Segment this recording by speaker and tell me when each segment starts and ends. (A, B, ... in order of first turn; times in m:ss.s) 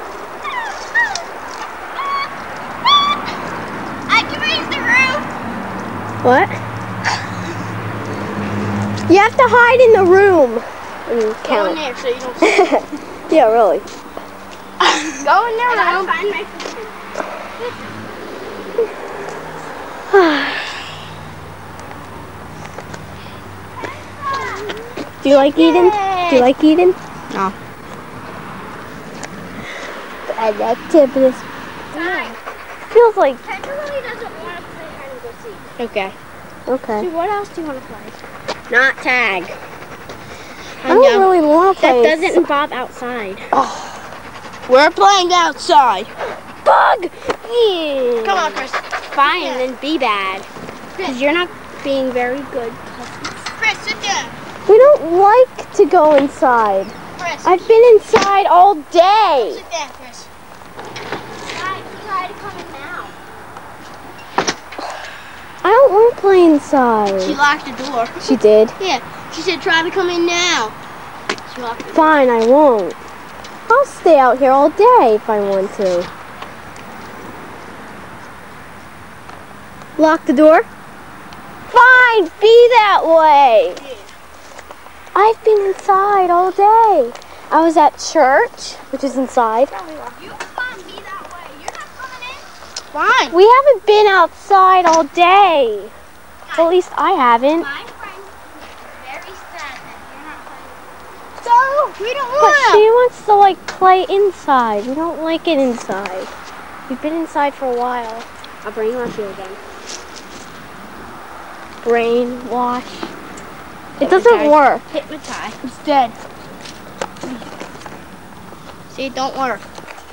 0:04.1-0:05.3 A
0:06.2-0:06.6 B
0:09.1-0:11.8 B
0:11.4-0:12.8 C
0:12.4-0:13.8 B
0:15.0-0:16.1 C
0:15.6-0:17.0 A
0:17.6-0:17.9 A
0:20.1-0:20.7 B
0:23.8-0:26.4 A
0:25.2-0:27.0 B
0:26.1-0:26.4 C
0:27.3-0:27.5 C
0:30.3-0:32.3 B
0:31.9-0:32.4 A
0:32.9-0:33.4 B
0:33.4-0:35.7 A
0:35.8-0:36.2 C
0:36.7-0:37.1 B
0:36.9-0:39.6 A
0:40.8-0:41.3 C
0:40.8-0:42.4 B
0:41.8-0:43.5 A
0:44.7-0:46.1 C
0:46.6-0:48.5 B
0:48.2-0:49.6 C
0:48.2-0:50.5 A
0:51.0-0:53.5 A
0:53.6-0:54.3 C
0:54.7-0:59.6 B
0:57.2-0:57.7 C
0:59.4-1:00.3 C
1:01.4-1:03.1 A
1:05.6-1:07.4 B
1:07.2-1:08.2 C
1:08.2-1:08.8 B
1:08.8-1:10.7 C
1:11.5-1:12.0 C
1:11.9-1:13.0 B
1:13.7-1:16.1 B
1:20.0-1:20.7 B
1:21.7-1:23.8 B
1:23.8-1:24.1 C
1:25.1-1:29.7 B
1:29.7-1:32.5 A
1:32.9-1:33.4 C
1:33.3-1:35.9 B
1:36.4-1:36.7 A
1:36.6-1:37.7 B
1:37.6-1:40.8 A
1:41.4-1:42.9 C
1:42.4-1:46.3 B
1:46.9-1:48.3 B
1:48.6-1:49.6 A
1:51.8-1:53.1 B
1:54.0-1:54.8 B
1:54.0-1:55.6 A
1:55.6-1:56.2 C
1:58.9-1:59.6 C